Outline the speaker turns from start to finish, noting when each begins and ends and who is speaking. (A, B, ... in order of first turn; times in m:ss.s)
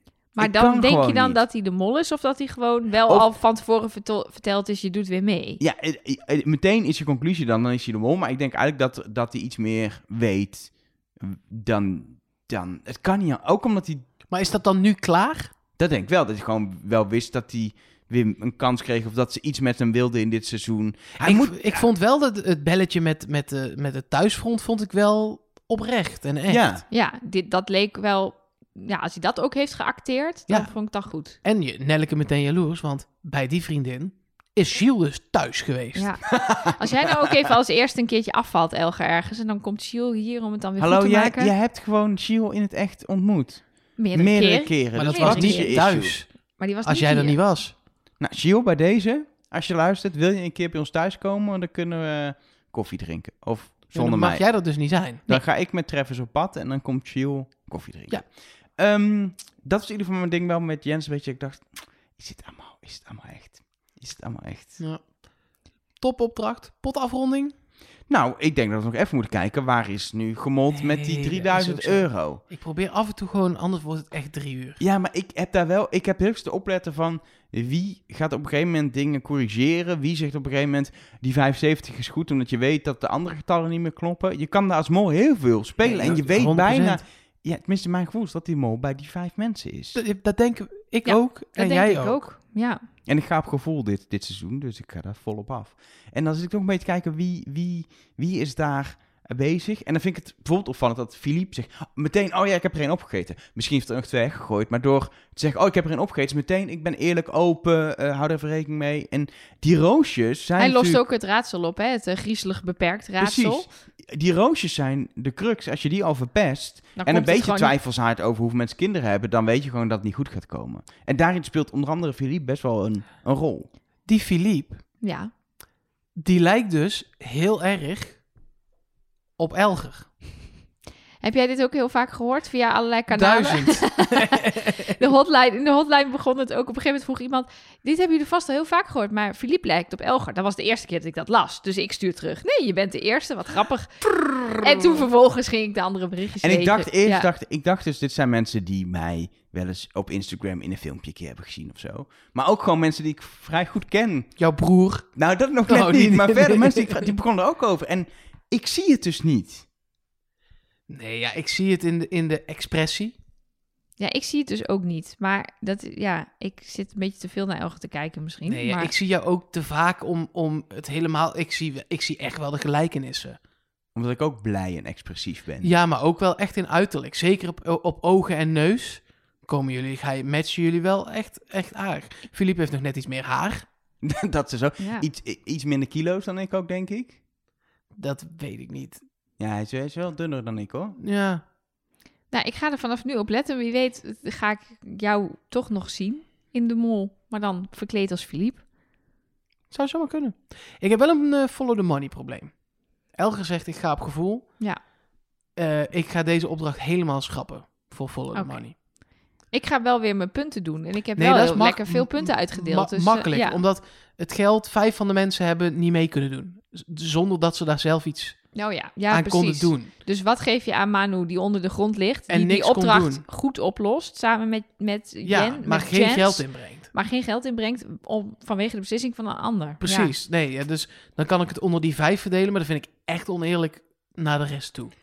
0:00.4-0:05.6 A
0:00.4-0:01.4 B
0:05.6-0:14.0 B
0:14.3-0:15.5 C
0:15.8-0:21.8 B
0:21.2-0:26.8 C
0:26.5-0:26.8 B
0:26.9-0:31.4 A
0:31.4-0:36.1 C
0:35.9-0:41.5 A
0:36.3-0:37.2 B
0:40.8-0:46.2 B
0:44.0-0:46.0 A
0:44.9-0:46.3 C
0:46.6-0:47.4 A
0:46.8-0:47.7 C
0:48.2-0:54.4 B
0:53.9-0:55.4 C
0:55.3-1:04.8 B
1:04.8-1:05.0 C
1:06.0-1:07.5 C
1:08.1-1:12.4 B
1:10.7-1:14.8 C
1:14.8-1:30.0 B
1:25.8-1:27.0 C
1:29.9-1:32.2 C
1:31.0-1:32.8 A
1:33.0-1:51.0 B
1:50.6-1:53.7 A
1:53.2-2:03.7 B
1:57.0-1:57.7 A
2:04.1-2:04.8 C
2:05.0-2:05.3 A
2:06.2-2:08.2 C
2:09.4-2:10.1 C
2:11.2-2:27.3 A
2:13.1-2:15.0 C
2:26.4-2:34.3 B
2:34.4-2:35.1 C
2:35.2-2:39.6 B
2:35.7-2:37.1 C
2:40.9-2:43.1 C
2:44.0-2:48.9 A
2:48.4-2:53.4 C
2:53.9-2:55.7 B
2:55.6-3:03.6 C
3:04.0-3:07.2 B
3:04.8-3:05.0 A
3:07.9-3:09.0 C
3:09.4-3:11.0 B
3:11.0-3:11.4 C
3:12.3-3:18.6 A
3:19.7-3:22.5 C
3:23.1-3:24.4 C
3:25.6-3:28.7 C
3:28.3-3:28.6 A
3:29.5-3:33.6 A
3:31.2-3:38.4 C
3:38.5-3:50.1 A
3:39.1-3:39.9 C
3:42.3-3:43.2 C
3:45.2-3:46.9 C
3:49.8-3:54.9 C